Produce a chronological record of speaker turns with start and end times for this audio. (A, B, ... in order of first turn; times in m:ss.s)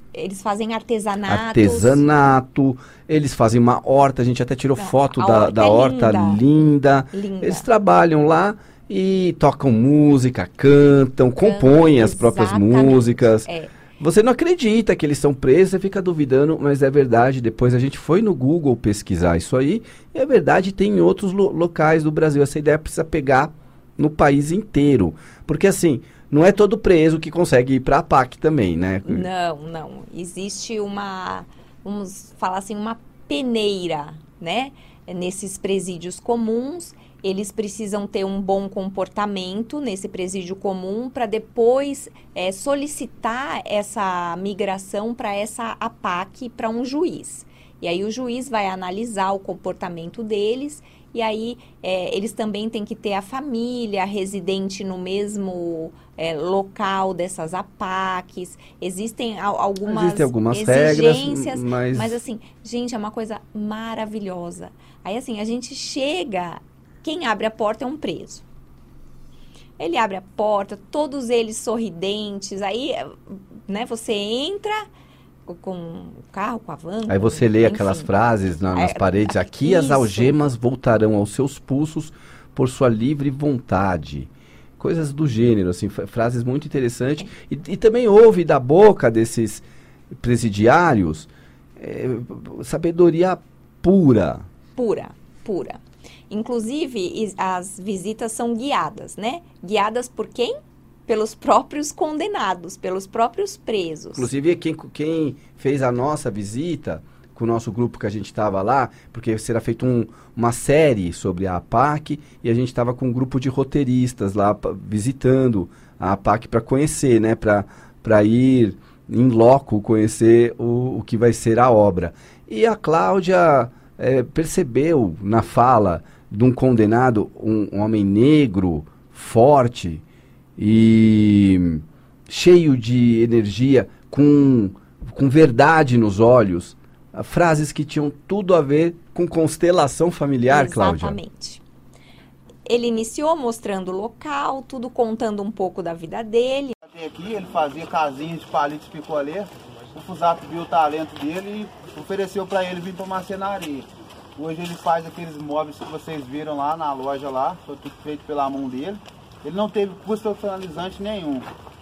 0:00.1-0:02.1 A
0:01.3-0:29.3 B
0:04.8-0:06.4 A
0:07.1-0:07.7 A
0:11.4-0:13.8 A
0:29.0-1:08.4 A
0:59.8-1:02.2 B
1:09.8-1:14.8 A
1:15.5-1:18.1 A
1:17.1-1:34.5 B
1:18.7-1:20.4 A
1:34.8-1:40.5 A
1:41.1-1:44.3 A
1:44.1-2:10.0 B
2:10.6-2:21.2 B
2:20.5-2:21.6 A
2:22.7-2:26.8 A
2:26.8-2:41.5 C